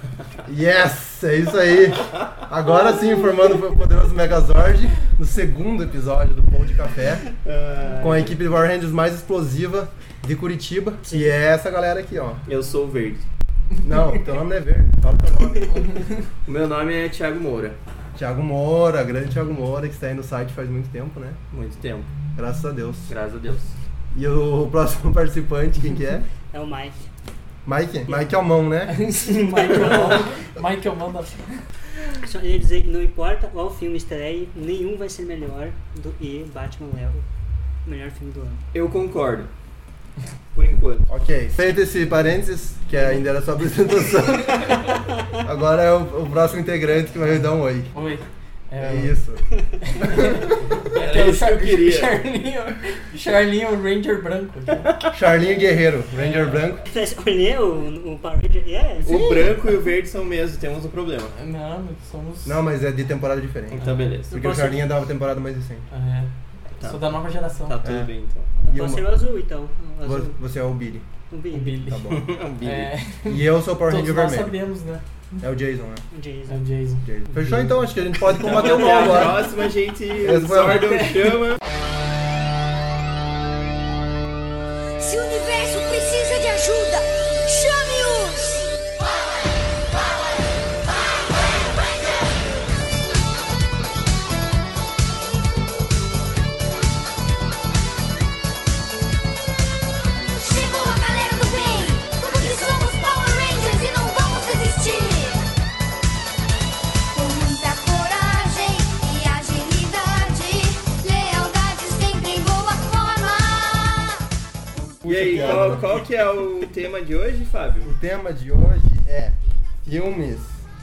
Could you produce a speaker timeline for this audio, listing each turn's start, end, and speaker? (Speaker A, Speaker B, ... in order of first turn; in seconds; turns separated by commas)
Speaker A: 0.4-7.3, Speaker B: 7.4-8.3, Speaker A: 8.0-12.4, Speaker B: 12.4-13.2, Speaker A: 13.8-16.0, Speaker C: 15.7-16.2, Speaker B: 16.4-17.8, Speaker A: 18.1-21.4, Speaker B: 21.5-22.1, Speaker A: 22.3-23.1, Speaker B: 23.1-23.8, Speaker A: 24.1-26.3, Speaker D: 26.5-27.0, Speaker A: 27.6-29.0, Speaker C: 28.9-31.6, Speaker D: 29.3-30.2, Speaker D: 32.2-37.2, Speaker D: 37.8-38.6, Speaker B: 38.7-39.5, Speaker B: 40.5-41.1, Speaker A: 41.1-44.9, Speaker A: 45.4-47.9, Speaker C: 47.9-49.2, Speaker A: 48.8-50.6, Speaker D: 49.7-50.0, Speaker C: 50.0-54.9, Speaker B: 50.9-52.2, Speaker A: 55.1-56.8, Speaker C: 56.1-56.6, Speaker D: 56.9-59.5, Speaker B: 59.0-61.3, Speaker A: 59.0-59.6, Speaker C: 61.3-62.6, Speaker A: 62.4-65.8, Speaker B: 63.7-64.3, Speaker C: 63.8-64.2, Speaker D: 64.3-64.9, Speaker C: 65.9-66.3, Speaker B: 66.8-68.5, Speaker C: 66.8-67.8, Speaker A: 67.8-68.1, Speaker A: 68.7-69.2, Speaker D: 68.7-70.4, Speaker A: 70.0-71.1, Speaker D: 71.3-71.8, Speaker C: 71.5-72.0, Speaker A: 71.8-72.3, Speaker B: 72.1-72.9, Speaker C: 72.6-75.0, Speaker A: 73.2-74.6, Speaker A: 75.4-76.0, Speaker D: 76.1-76.7, Speaker C: 76.5-79.5, Speaker A: 77.0-79.5, Speaker B: 78.3-81.6, Speaker A: 80.2-80.9, Speaker C: 80.4-81.4, Speaker E: 85.0-88.7, Speaker E: 100.4-105.4, Speaker E: 107.1-114.2, Speaker A: 115.0-115.9, Speaker B: 115.0-117.9, Speaker A: 117.8-120.6